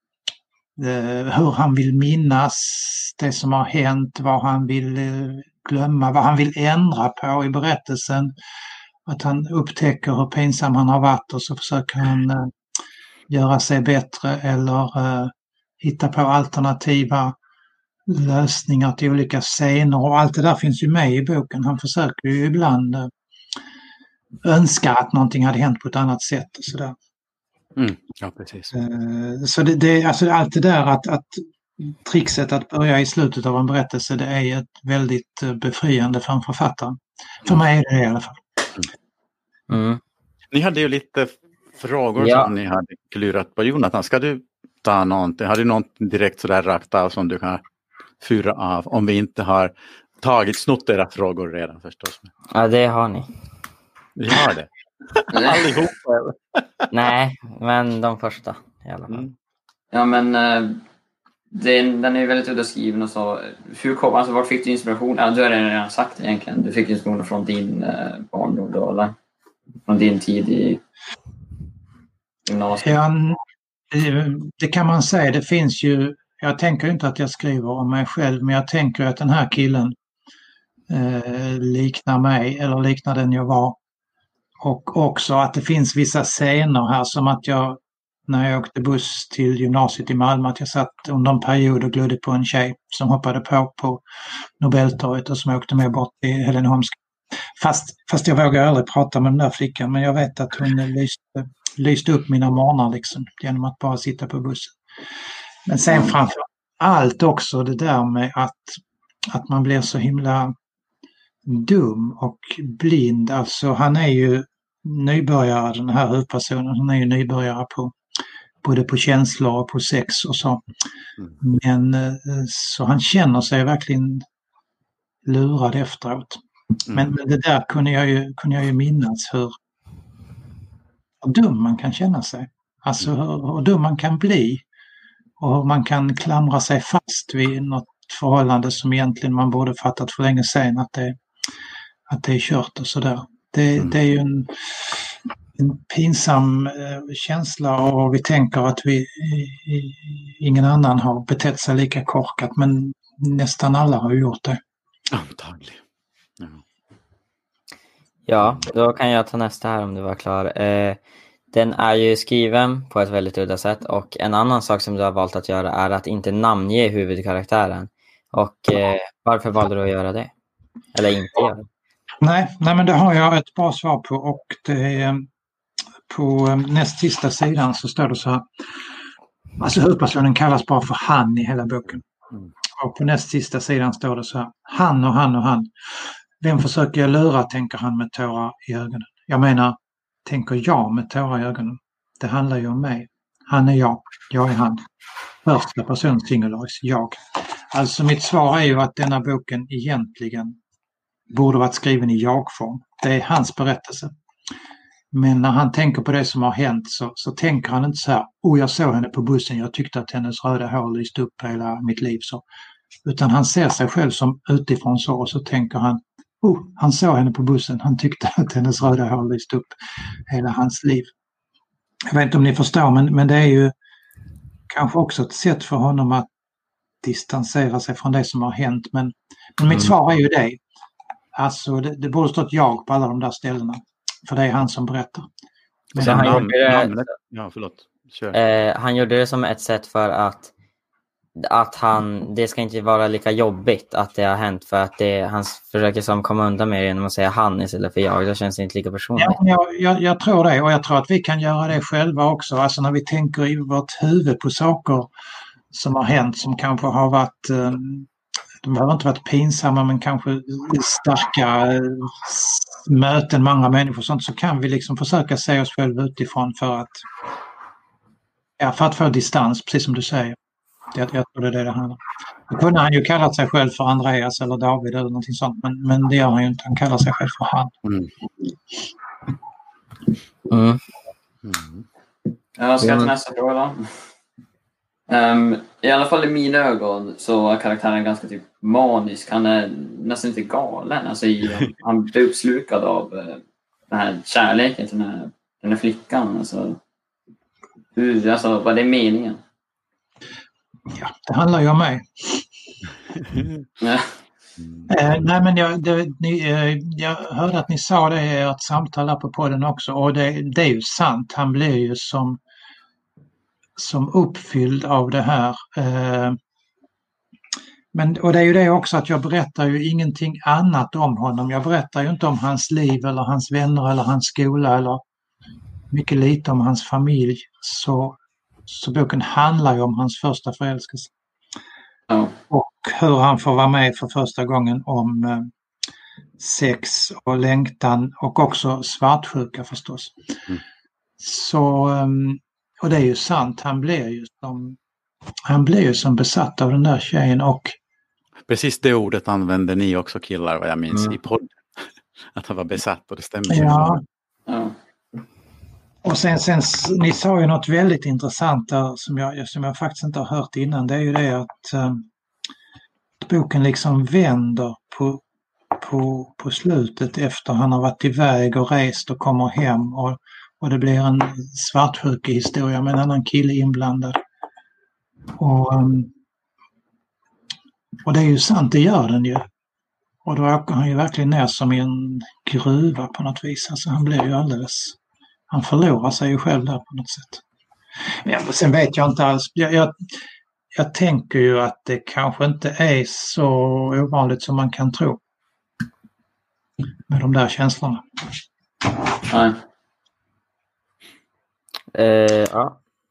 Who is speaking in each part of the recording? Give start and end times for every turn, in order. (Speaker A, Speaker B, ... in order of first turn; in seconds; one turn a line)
Speaker A: 0.8-8.3
Speaker A: 9.1-12.5
Speaker A: 13.3-17.4
Speaker A: 18.1-23.1
Speaker A: 24.4-26.9
Speaker B: 27.8-28.7
Speaker A: 28.7-38.4
Speaker C: 39.7-40.0
Speaker B: 40.5-47.6
Speaker C: 42.2-42.5
Speaker B: 48.2-52.3
Speaker C: 52.5-53.3
Speaker B: 54.1-56.9
Speaker D: 55.3-55.8
Speaker C: 56.9-59.2
Speaker B: 59.1-59.3
Speaker D: 59.9-60.8
Speaker D: 61.5-69.1
Speaker D: 69.8-70.8
Speaker D: 72.5-73.0
Speaker A: 72.8-73.4
Speaker A: 73.9-79.9
Speaker A: 80.9-83.8
Speaker A: 84.6-94.0
Speaker A: 94.6-97.0
Speaker A: 97.6-104.7
Speaker A: 105.7-110.5
Speaker A: 111.5-117.9
Speaker A: 118.6-120.6
Speaker A: 121.4-124.2
Speaker A: 125.2-129.5
Speaker A: 131.2-134.6
Speaker A: 135.4-141.2
Speaker A: 142.1-154.6
Speaker B: 155.1-155.8
Speaker C: 158.3-161.0
Speaker C: 161.5-170.3
Speaker C: 170.9-171.6
Speaker A: 172.2-175.3
Speaker A: 176.1-178.4
Speaker A: 179.6-182.0
Speaker A: 182.8-194.8
Speaker A: 195.4-200.6
Speaker A: 201.3-204.1
Speaker A: 205.1-212.4
Speaker A: 213.0-219.7
Speaker A: 220.3-221.1
Speaker A: 222.1-223.7
Speaker A: 224.7-226.3
Speaker A: 227.0-230.6
Speaker A: 231.3-235.3
Speaker A: 235.9-236.5
Speaker B: 235.9-238.4
Speaker C: 236.0-237.0
Speaker C: 238.3-240.5
Speaker C: 241.4-249.4
Speaker A: 249.2-255.1
Speaker A: 255.7-258.1
Speaker A: 258.6-267.1
Speaker A: 268.6-270.4
Speaker A: 270.9-277.7
Speaker B: 277.8-278.1
Speaker C: 280.5-280.8
Speaker B: 281.4-281.8
Speaker D: 282.6-283.9
Speaker C: 282.8-283.1
Speaker D: 285.1-296.8
Speaker D: 297.9-299.4
Speaker A: 300.9-302.4
Speaker D: 303.8-304.1
Speaker B: 304.6-304.9
Speaker A: 304.9-312.4
Speaker A: 313.8-316.4
Speaker A: 317.9-325.0
Speaker A: 325.9-331.1
Speaker D: 332.1-332.3
Speaker A: 332.5-335.5
Speaker A: 336.4-340.1
Speaker A: 341.2-344.8
Speaker A: 345.5-347.8
Speaker B: 348.5-354.0
Speaker A: 353.5-354.0
Speaker D: 354.5-354.7
Speaker A: 356.0-362.0
Speaker A: 363.2-365.2
Speaker A: 365.8-374.2
Speaker A: 375.4-376.1
Speaker A: 378.0-379.4
Speaker A: 380.2-385.0
Speaker A: 385.5-387.4
Speaker A: 388.2-390.1
Speaker A: 390.7-395.2
Speaker A: 397.1-398.0
Speaker D: 399.3-399.6
Speaker C: 401.9-402.8